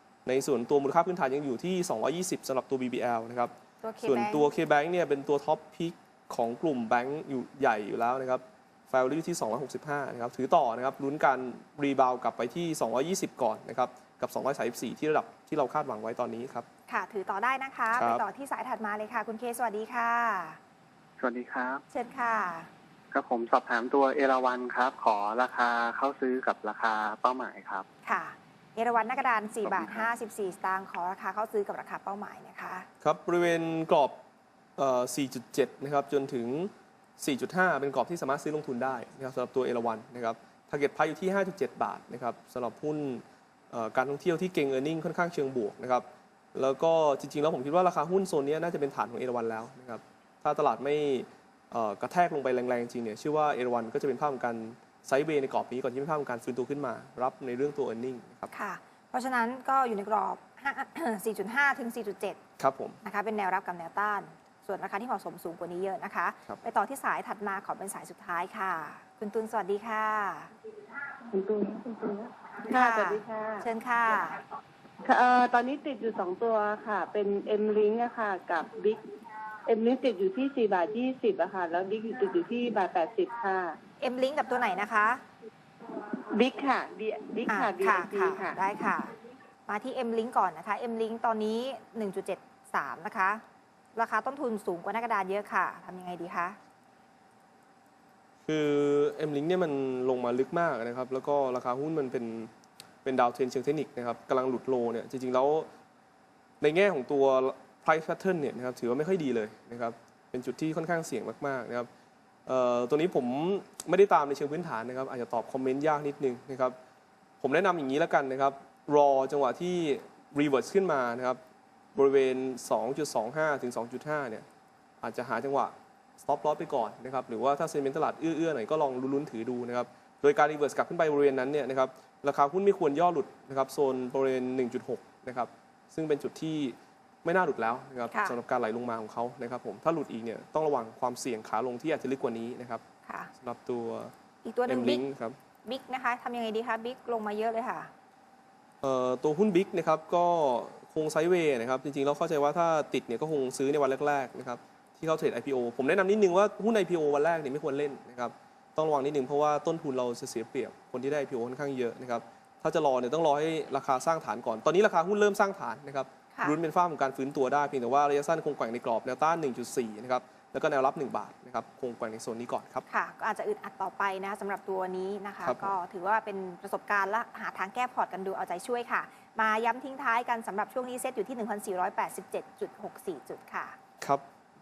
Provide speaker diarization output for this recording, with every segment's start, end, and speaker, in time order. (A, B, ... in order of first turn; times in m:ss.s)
0:00.3-0:16.7 A
0:03.8-0:04.5 B
0:16.9-0:20.6 B
0:18.0-0:18.2 A
0:21.2-0:21.8 C
0:21.9-0:22.7 B
0:23.1-0:27.9 C
0:28.0-0:32.9 B
0:29.6-0:30.1 C
0:33.0-0:34.2 A
0:34.8-0:58.5 A
0:58.5-1:02.4 B
1:02.6-1:03.0 A
1:03.0-1:10.5 B
1:11.3-1:13.7 D
1:12.7-1:14.4 B
1:15.0-1:19.0 D
1:19.7-1:23.8 D
1:24.0-1:25.2 B
1:26.3-1:28.6 D
1:27.5-1:29.1 B
1:29.7-1:33.4 B
1:34.0-1:36.6 B
1:38.4-1:42.5 A
1:43.0-1:45.7 A
1:46.6-1:51.9 A
1:52.5-1:56.8 A
1:57.4-2:01.4 A
2:02.0-2:04.5 A
2:05.0-2:22.8 A
2:18.1-2:18.4 B
2:23.1-2:23.3 B
2:23.4-2:24.1 A
2:24.4-2:25.0 B
2:24.7-2:25.4 A
2:25.6-2:27.9 B
2:28.8-2:52.9 A
2:52.9-3:03.8 B
2:55.4-2:55.8 A